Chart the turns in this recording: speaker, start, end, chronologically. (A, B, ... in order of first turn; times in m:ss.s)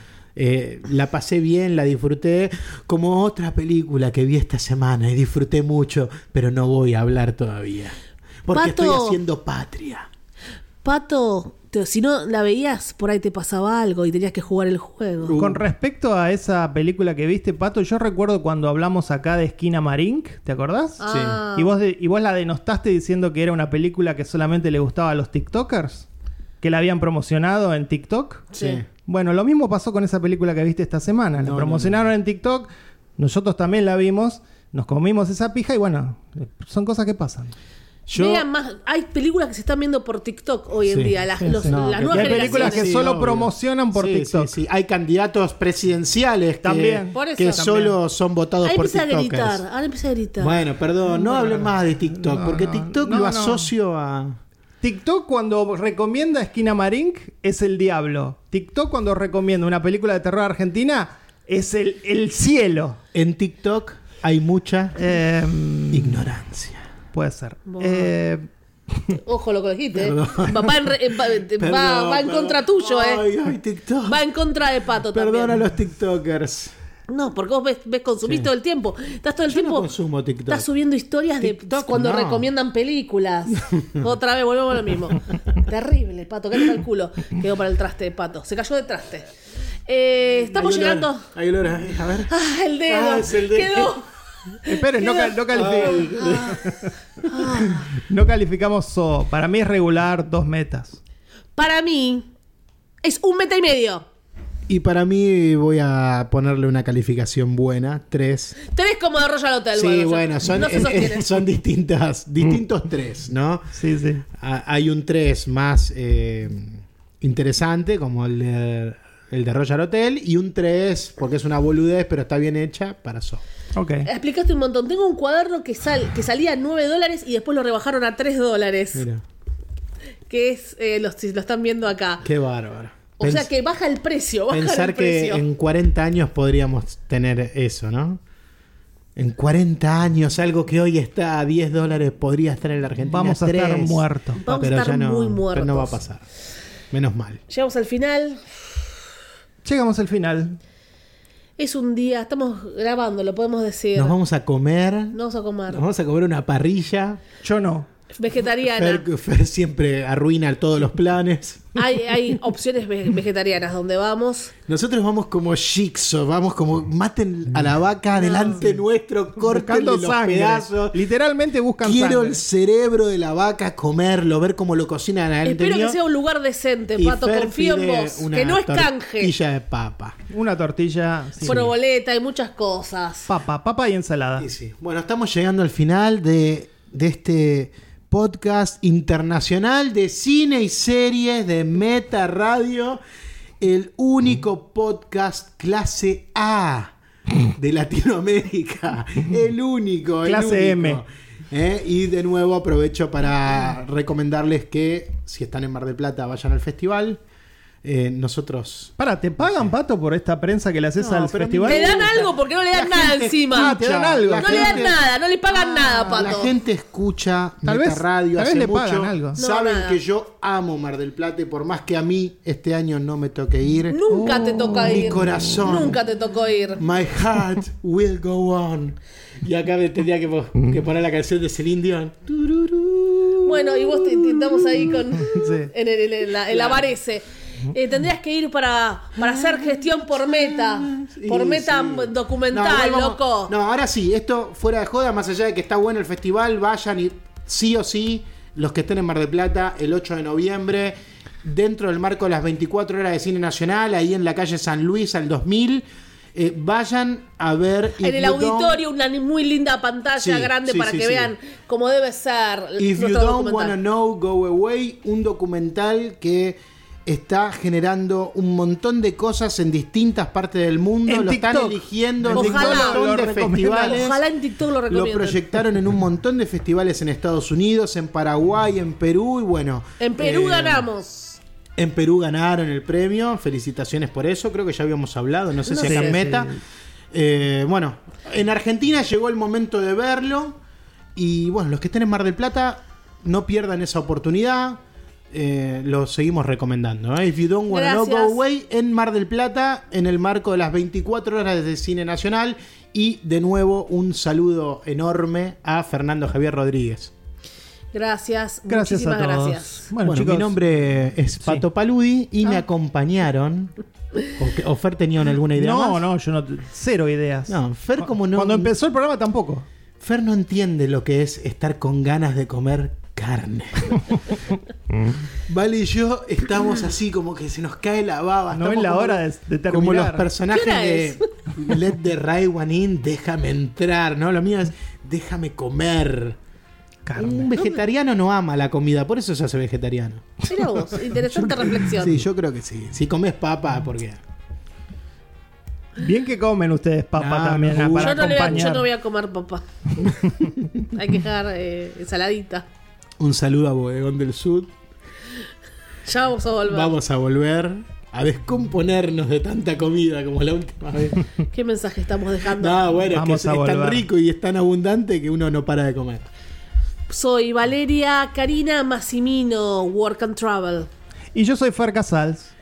0:00.4-0:10.1 A
0:08.5-0:09.2 B
0:10.8-0:15.4 B
0:15.2-0:15.6 A
0:15.4-0:21.0 C
0:21.0-0:21.7 B
0:21.1-0:21.4 A
0:21.5-0:26.0 C
0:26.6-0:28.5 C
0:28.5-0:28.8 A
0:28.5-0:28.8 B
0:29.0-0:37.5 C
0:31.4-0:32.1 A
0:38.1-0:38.4 A
0:38.1-0:42.9 B
0:40.9-0:49.6 A
0:41.4-0:44.5 C
0:46.6-0:47.1 C
0:47.1-0:47.9 B
0:48.6-0:50.6 B
0:50.4-0:54.4 A
0:51.1-0:53.7 C
0:54.8-1:03.0 C
1:03.1-1:05.0 A
1:05.0-1:06.2 C
1:05.9-1:06.8 A
1:07.1-1:09.2 C
1:07.7-1:08.1 B
1:09.1-1:13.2 B
1:09.9-1:10.9 A
1:11.6-1:14.2 A
1:14.0-1:15.6 B
1:15.1-1:16.7 A
1:17.1-1:19.9 B
1:19.5-1:20.7 A
1:20.5-1:29.3 B
1:21.4-1:22.5 A
1:23.6-1:24.0 A
1:29.9-1:31.3 B
1:30.5-1:32.3 A
1:32.3-1:34.1 B
1:32.9-1:34.0 A
1:34.6-1:37.9 B
1:34.6-1:36.9 C
1:35.5-1:37.4 A
1:37.6-1:41.0 C
1:41.6-1:42.3 B
1:43.0-1:44.0 B
1:44.7-1:48.5 A
1:48.6-1:51.3 B
1:49.8-1:53.7 A
1:53.7-1:54.2 C
1:54.3-2:03.4 A
2:03.7-2:04.1 C
2:04.0-2:09.0 B
2:08.9-2:09.2 A
2:10.3-2:12.2 B
2:12.2-2:13.5 A
2:13.2-2:15.4 B
2:14.5-2:18.2 A
2:19.2-2:26.2 A
2:23.0-2:24.4 C
2:24.4-2:26.0 B
2:26.9-2:27.4 A
2:27.5-2:28.6 B
2:29.6-2:30.6 C
2:31.6-2:34.2 B
2:34.0-2:35.2 A
2:35.1-2:35.8 B
2:35.7-2:37.2 A
2:37.4-2:37.9 C
2:38.1-2:39.0 B
2:38.8-2:41.7 A
2:41.7-2:44.5 B
2:44.7-2:51.0 A
2:48.2-2:48.6 B
2:49.4-2:52.4 C
2:51.8-2:56.0 A
2:55.4-2:59.3 B
2:57.0-3:00.2 A
3:00.3-3:01.7 C
3:01.4-3:03.3 B
3:03.3-3:04.5 C
3:04.4-3:13.0 A
3:13.6-3:27.2 A
3:20.2-3:21.0 C
3:27.8-3:29.7 A
3:29.0-3:32.0 C
3:31.0-3:35.0 A
3:31.6-3:33.8 B
3:33.5-3:34.9 C
3:34.4-3:36.5 B
3:35.8-3:44.0 A
3:35.8-3:36.1 C
3:37.6-3:39.4 C
3:39.4-3:40.0 B
3:43.9-3:46.8 B
3:44.1-3:45.6 C
3:44.8-3:46.0 A
3:46.8-3:55.3 A
3:53.4-4:03.5 B
3:55.2-3:55.7 C
3:56.5-3:56.9 A
3:59.3-3:59.6 A
4:00.3-4:15.8 A
4:16.3-4:18.8 A
4:18.0-4:23.8 B
4:20.2-4:21.3 A
4:22.8-4:34.2 A
4:31.1-4:34.1 C
4:32.3-4:33.0 B
4:33.7-4:35.4 B
4:34.9-4:40.9 A
4:40.0-4:41.4 B
4:41.8-4:46.5 A
4:45.6-4:46.2 B
4:45.8-4:46.6 C
4:47.1-4:50.6 A
4:51.1-4:54.8 A
4:55.3-5:07.1 A
4:57.7-4:58.4 B
5:07.9-5:09.9 B
5:08.7-5:10.6 C
5:10.0-5:13.7 A
5:14.3-5:16.0 A
5:15.6-5:19.6 C
5:17.5-5:18.7 A
5:20.0-5:24.1 A
5:25.5-5:36.4 A
5:28.5-5:30.3 C
5:30.5-5:31.3 B
5:37.0-5:37.6 C
5:37.2-5:40.5 A
5:40.5-5:42.2 B
5:41.4-5:44.2 A
5:46.0-5:48.9 C
5:47.2-5:48.7 A
5:48.0-5:50.1 B
5:50.8-5:52.6 B
5:53.2-5:54.7 A
5:56.0-5:56.9 B
5:56.7-6:01.2 A
6:01.5-6:03.0 B
6:02.5-6:06.3 A
6:03.1-6:04.0 C
6:07.1-6:10.9 B
6:11.3-6:12.5 C